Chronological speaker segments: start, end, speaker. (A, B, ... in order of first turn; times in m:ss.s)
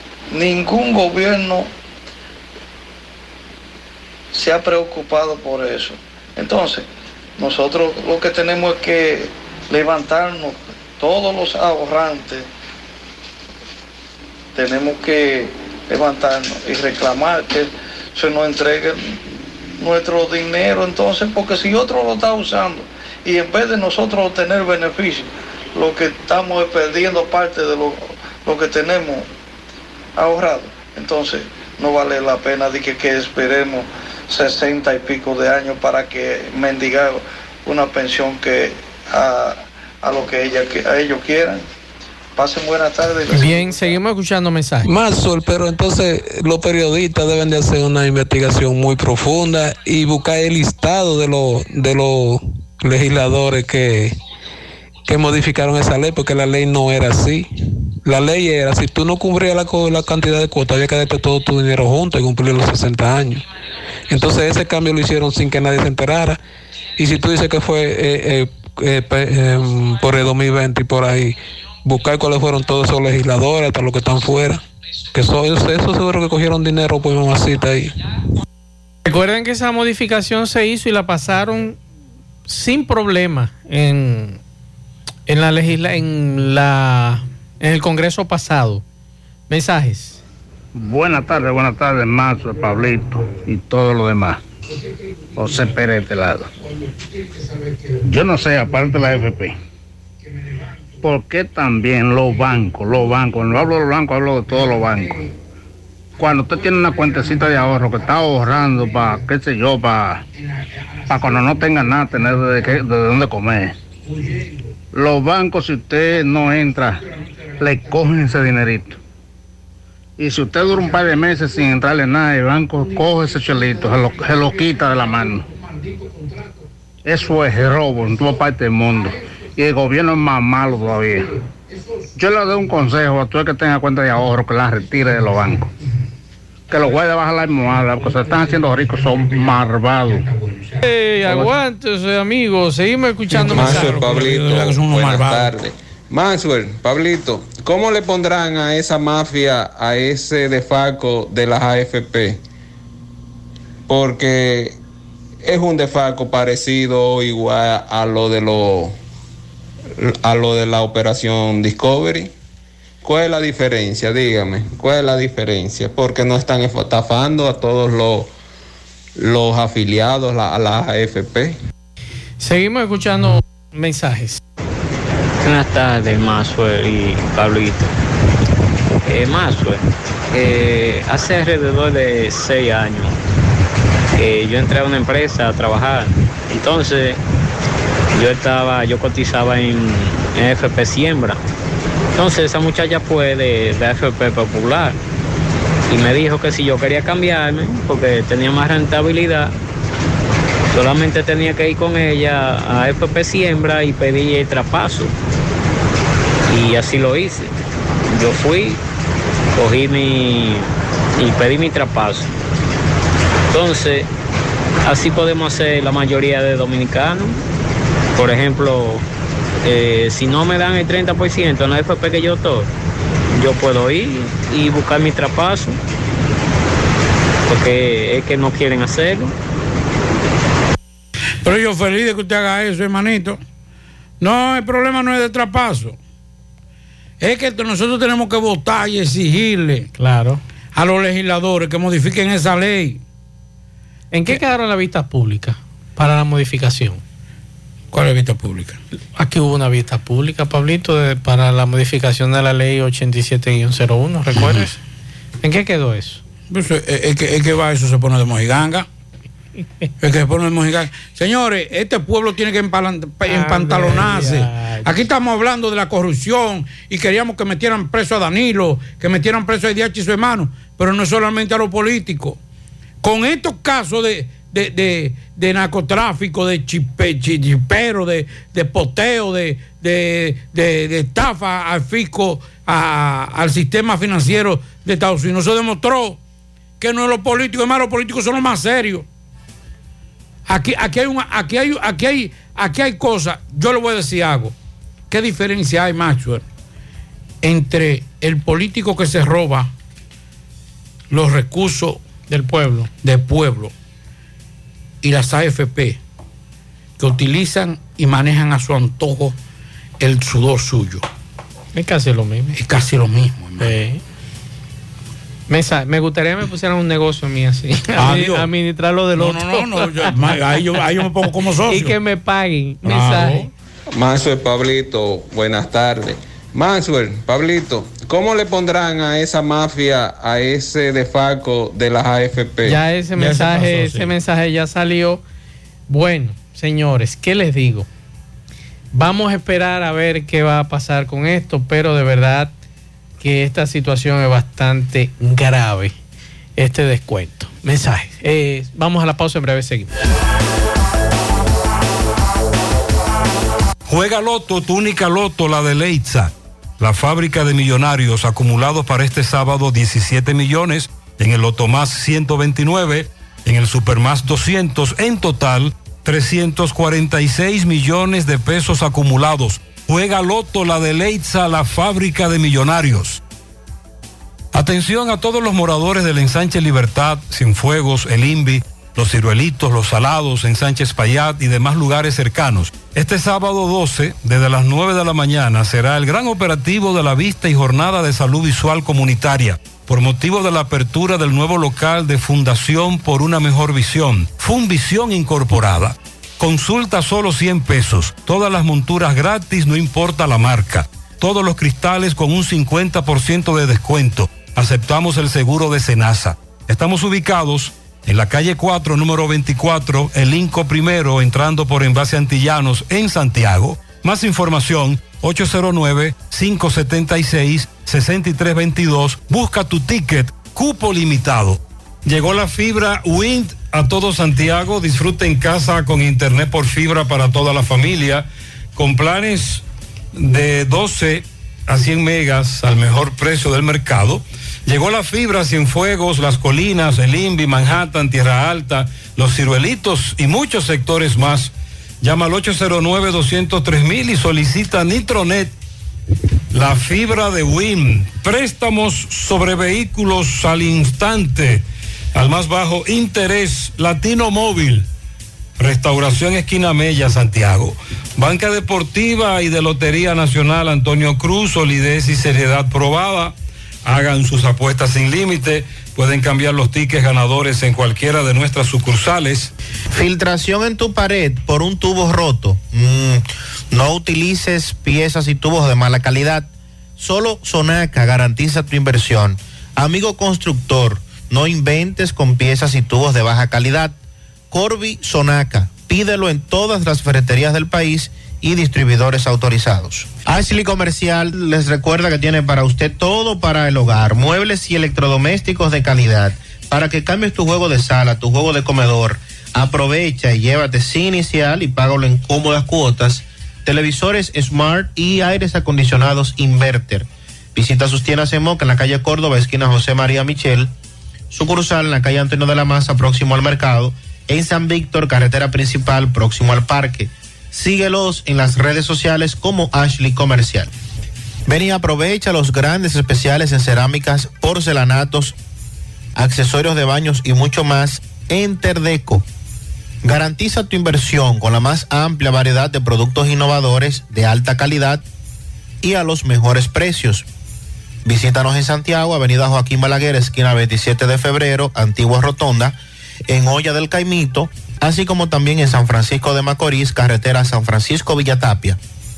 0:00.3-0:01.7 A
0:04.3-0:06.9 A
0:07.4-0:12.4 A
0:14.5-0:19.2 A
0:19.8-0:29.3 A
0:30.2-0:41.6 A
0:42.3-0:44.0 A
0:43.3-0:44.9 B
0:44.8-0:54.1 C
0:55.0-0:57.5 C
0:58.0-1:03.4 C
1:04.1-1:06.4 C
1:07.0-1:14.6 C
1:15.1-1:17.9 C
1:19.0-1:21.8 B
1:22.5-1:24.4 B
1:25.3-1:28.8 B
1:29.5-1:30.2 B
1:30.8-1:34.4 D
1:35.4-1:36.5 D
1:38.0-1:39.5 D
1:41.0-1:45.2 D
1:46.2-1:50.2 D
1:51.1-1:53.7 D
1:54.9-1:57.0 D
1:57.6-1:59.0 D
2:00.2-2:05.4 D
2:07.0-2:11.2 D
2:12.2-2:15.7 D
2:16.7-2:20.3 D
2:20.8-2:24.0 B
2:23.3-2:25.6 E
2:23.4-2:32.4 F
2:33.9-2:34.8 F
2:35.4-2:39.0 F
2:40.0-2:42.3 F
2:43.0-2:48.3 F
2:49.2-2:51.6 F
2:52.4-2:54.4 B
2:55.4-2:57.9 G
2:59.1-3:03.1 G
3:04.2-3:07.2 G
3:08.1-3:11.4 G
3:12.1-3:15.0 G
3:15.9-3:19.5 G
3:20.7-3:25.1 G
3:26.5-3:27.5 G
3:28.1-3:28.8 G
3:29.6-3:32.3 G
3:33.5-3:34.1 G
3:34.8-3:37.4 G
3:38.2-3:39.0 G
3:39.6-3:42.7 G
3:43.4-3:45.8 G
3:47.5-3:49.3 G
3:51.4-3:53.4 E
3:54.2-3:56.0 E
3:57.2-3:59.9 E
4:00.0-4:00.4 B
4:00.7-4:03.0 E
4:04.1-4:07.0 B
4:07.9-4:08.8 E
4:09.2-4:14.8 B
4:14.3-4:14.7 E
4:15.4-4:16.2 B
4:16.5-4:18.9 E
4:20.0-4:32.4 E
4:23.2-4:24.9 B
4:33.0-4:46.2 E
4:46.8-4:49.0 E
4:50.5-4:54.5 E
4:55.1-4:56.4 E
4:57.4-4:59.7 E
5:01.1-5:02.0 E
5:02.3-5:02.9 B
5:03.0-5:03.7 E
5:05.0-5:06.0 E
5:07.0-5:09.4 E
5:10.0-5:11.0 E
5:11.7-5:12.5 B
5:12.5-5:13.7 E
5:13.6-5:14.0 B
5:15.5-5:20.4 B
5:17.9-5:18.5 E
5:19.2-5:22.0 E
5:21.7-5:23.5 B
5:22.8-5:23.5 E
5:23.9-5:32.8 F
5:32.6-5:35.2 B
5:33.2-5:34.1 E
5:35.9-5:37.9 B
5:38.9-5:42.5 B
5:43.2-5:45.9 B
5:46.6-5:49.9 B
5:53.9-6:13.2 H
6:14.5-7:09.6 H
7:10.2-7:25.5 H
7:26.5-7:34.8 H
7:35.6-7:49.5 H
7:49.9-8:03.9 I
8:04.5-8:30.7 I
8:31.3-8:40.7 I
8:41.5-8:45.3 I
8:46.2-8:49.2 I
8:50.0-8:55.0 I
8:55.8-8:57.2 I
8:58.0-9:02.8 I
9:03.3-9:08.8 I